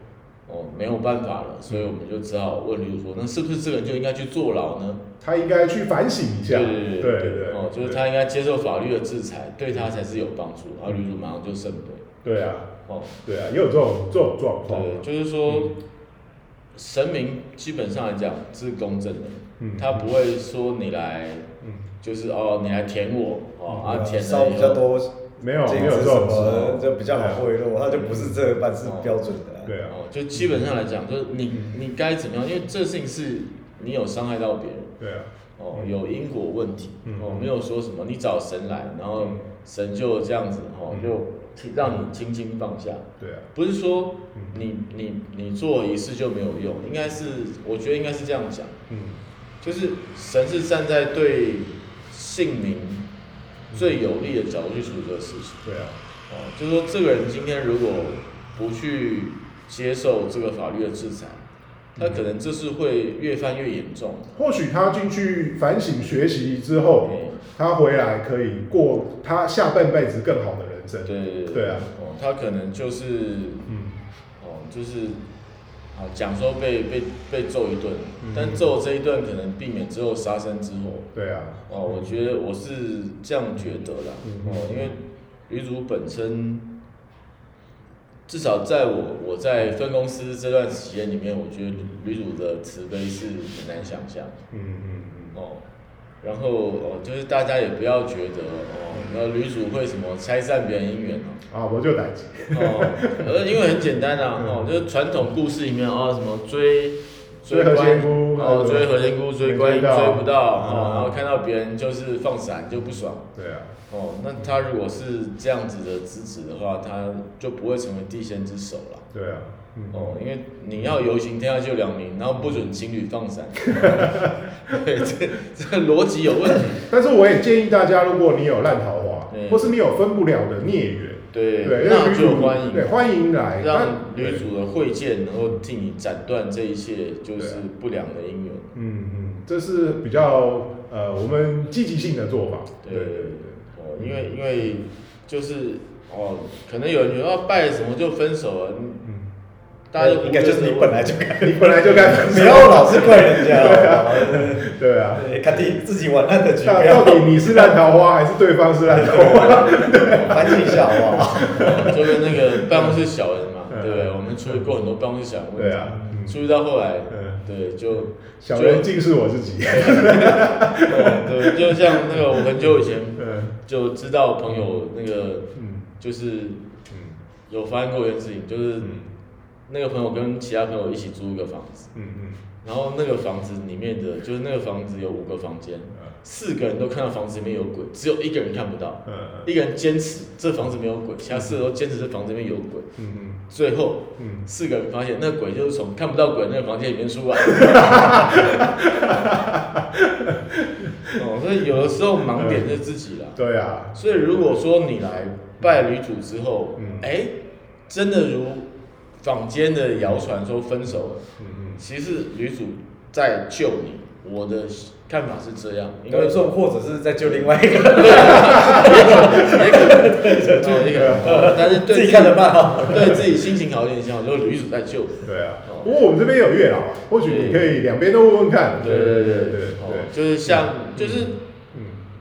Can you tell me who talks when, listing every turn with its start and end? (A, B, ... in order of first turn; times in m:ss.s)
0:00.4-0:05.0 A
0:05.2-0:08.0 B
0:06.5-0:12.0 A
0:12.2-0:12.7 B
0:12.9-0:13.1 A
0:13.2-0:15.7 B
0:14.7-0:15.7 A
0:16.7-0:21.5 A
0:19.6-0:20.0 B
0:22.0-0:24.8 A
0:23.7-0:24.0 B
0:23.8-0:29.7 C
0:25.4-0:27.4 B
0:25.7-0:26.8 A
0:27.9-0:29.2 A
0:29.6-0:30.6 B
0:29.9-0:34.9 A
0:31.5-0:31.8 B
0:35.0-0:35.9 B
0:35.6-0:48.8 A
0:37.0-0:37.5 B
0:43.2-0:43.5 B
0:44.3-0:44.6 B
0:48.9-0:49.2 B
0:49.6-0:53.0 A
0:53.7-0:54.0 B
0:53.7-0:55.6 A
0:55.6-0:56.0 B
0:56.3-1:01.4 A
1:02.0-1:02.2 B
1:02.0-1:04.3 A
1:04.3-1:11.9 B
1:07.0-1:07.4 A
1:11.0-1:13.6 A
1:13.7-1:14.0 B
1:14.4-1:15.2 A
1:15.9-1:21.1 A
1:18.2-1:18.7 B
1:21.1-1:22.1 B
1:21.7-1:26.6 A
1:24.2-1:24.9 B
1:28.3-1:34.4 A
1:34.5-1:35.4 B
1:35.3-1:35.6 A
1:36.2-1:41.4 A
1:38.9-1:39.2 B
1:41.5-1:43.3 B
1:42.5-1:53.3 A
1:44.4-1:44.6 B
1:47.5-1:48.9 B
1:49.4-1:51.1 B
1:53.4-1:53.7 B
1:53.9-1:59.0 A
1:59.1-2:00.2 B
1:59.9-2:06.8 A
2:03.7-2:04.5 B
2:06.8-2:14.4 B
2:09.3-2:09.7 A
2:11.3-2:12.9 A
2:13.6-2:18.7 A
2:17.4-2:17.6 B
2:18.7-2:24.4 B
2:22.8-2:29.0 A
2:29.9-2:31.3 A
2:30.0-2:37.8 C
2:31.4-2:35.2 B
2:35.5-2:35.8 A
2:36.6-2:42.2 B
2:39.0-2:40.8 A
2:40.2-2:41.6 C
2:41.4-2:48.9 A
2:42.7-2:43.0 B
2:43.7-2:44.6 B
2:45.6-2:46.4 B
2:47.1-2:47.4 B
2:48.4-2:52.4 B
2:49.7-2:56.6 A
2:53.2-2:53.5 B
2:55.5-2:55.9 B
2:56.9-2:57.2 B
2:57.5-2:59.0 A
2:58.8-2:59.1 B
2:59.7-3:01.9 A
3:01.9-3:02.4 B
3:02.6-3:12.9 A
3:09.0-3:09.5 B
3:13.0-3:13.4 B
3:13.5-3:18.6 A
3:14.2-3:14.4 B
3:17.4-3:21.2 B
3:21.2-3:23.4 A
3:22.3-3:22.7 B
3:23.4-3:24.3 B
3:23.9-3:27.3 A
3:26.8-3:27.1 B
3:27.9-3:28.7 A
3:29.2-3:31.2 A
3:31.4-3:31.8 B
3:31.8-3:36.4 A
3:36.1-3:43.2 C
3:37.2-3:45.9 A
3:38.4-3:39.5 B
3:40.9-3:41.6 B
3:42.9-3:43.2 B
3:45.2-3:52.0 B
3:47.2-3:47.7 A
3:48.8-3:51.4 A